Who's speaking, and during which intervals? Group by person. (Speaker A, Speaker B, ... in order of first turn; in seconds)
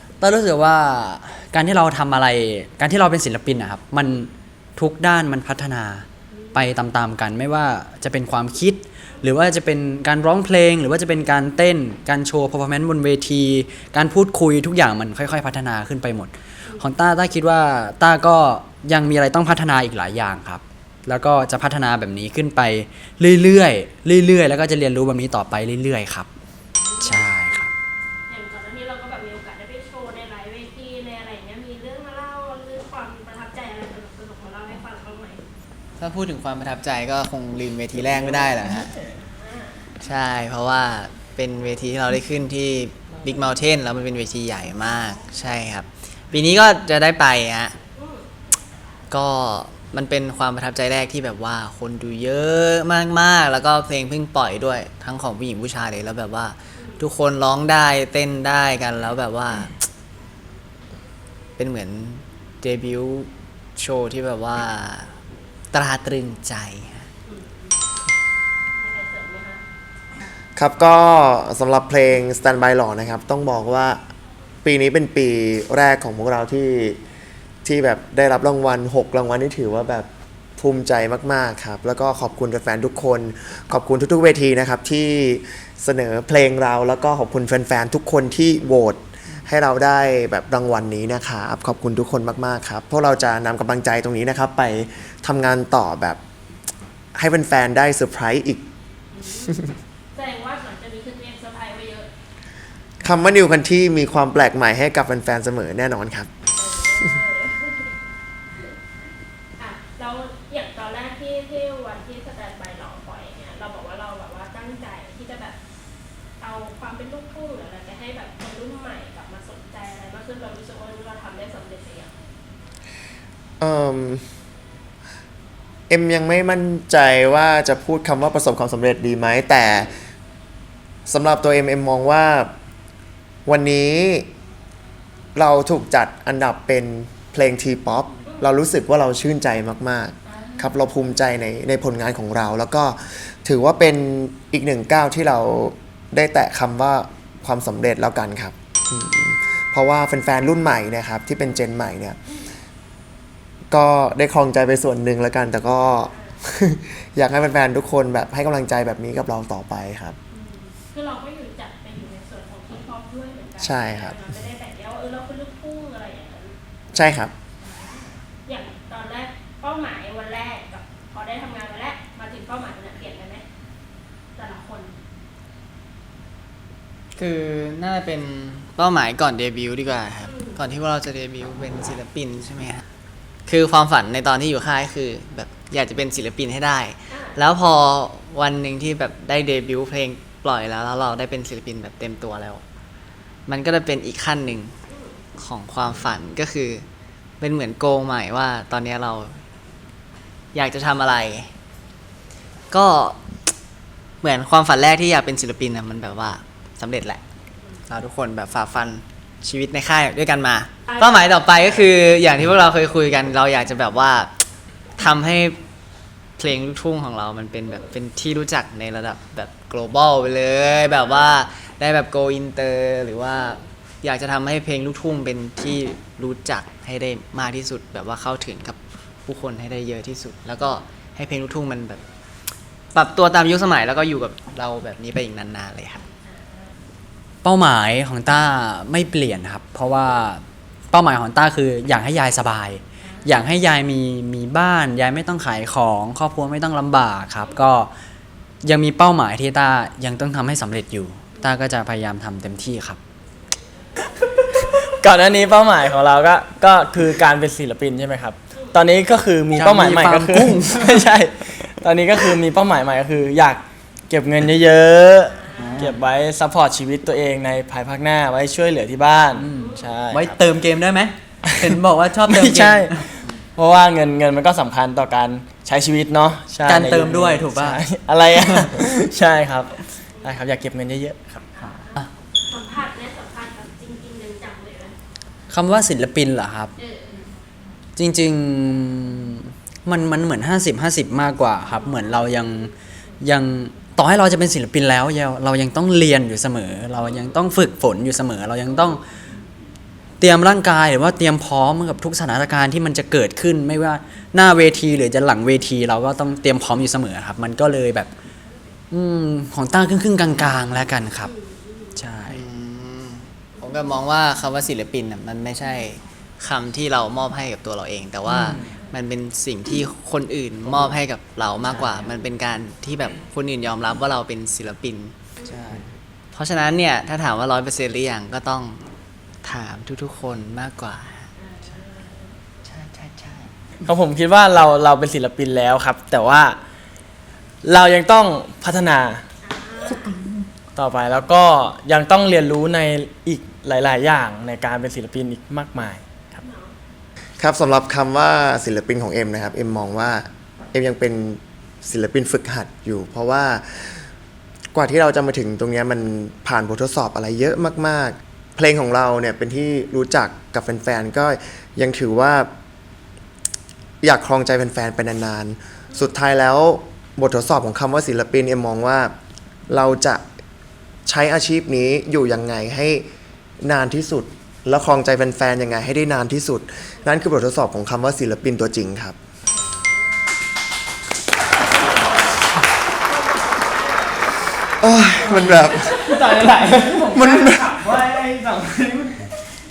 Speaker A: 0.2-26.3, 27.0-27.7, 237.4-247.9, 248.6-253.0, 259.5-261.1, 265.6-266.0, 269.4-273.1, 276.6-277.8, 278.4-278.7, 281.6-282.1, 285.5-286.7, 288.0-299.0, 300.2-308.1, 308.9-311.3, 312.0-312.4, 318.3-318.7
Speaker B: 6.3-6.7, 26.8-27.3, 28.3-35.4, 39.4-39.9, 48.0-48.3, 56.8-57.0, 67.3-67.8, 68.8-69.6, 99.1-102.1, 106.6-107.9, 109.6-115.6, 116.4-122.1, 140.3-140.7, 155.9-156.4, 160.3-166.6, 167.6-173.4, 174.4-175.0, 180.3-180.6, 187.1-187.4, 194.9-195.3, 210.9-211.5, 220.7-221.3, 235.9-236.8, 243.0-243.5, 254.0-254.6, 258.5-258.8, 265.3-266.0, 269.5-270.0, 280.2-280.4, 281.5-285.0, 286.8-287.3, 311.2-312.0, 318.6-318.9, 331.4-332.4, 339.4-340.1, 346.4-346.7, 379.5-380.3, 383.0-384.5, 385.8-386.2
Speaker C: 36.0-38.9, 40.0-47.8, 49.1-59.8, 61.6-65.1, 65.7-67.1, 177.2-182.8, 183.5-192.6, 193.5-194.8, 195.4-196.9, 197.4-199.4, 200.5-201.5, 202.7-203.2, 204.2-207.2, 207.9-214.4, 215.0-215.6, 216.4-232.0, 232.9-236.0, 310.3-310.7, 312.3-328.9, 329.4-331.3, 332.6-333.5
Speaker D: 38.0-38.9, 254.6-270.4, 272.3-273.0, 273.6-281.4, 333.9-336.6, 337.6-339.2, 340.8-346.4, 385.2-389.3
Speaker E: 70.6-74.0, 74.6-77.0, 77.7-96.2, 97.2-98.6, 103.0-106.3, 123.6-124.2, 125.9-129.9, 131.1-132.5, 133.5-134.3, 135.3-152.2, 153.7-160.2, 163.6-164.2, 166.9-167.3, 347.4-354.0, 354.7-362.5, 364.0-369.1, 369.7-370.2, 371.1-373.1, 373.6-379.2, 384.8-385.9, 387.1-387.8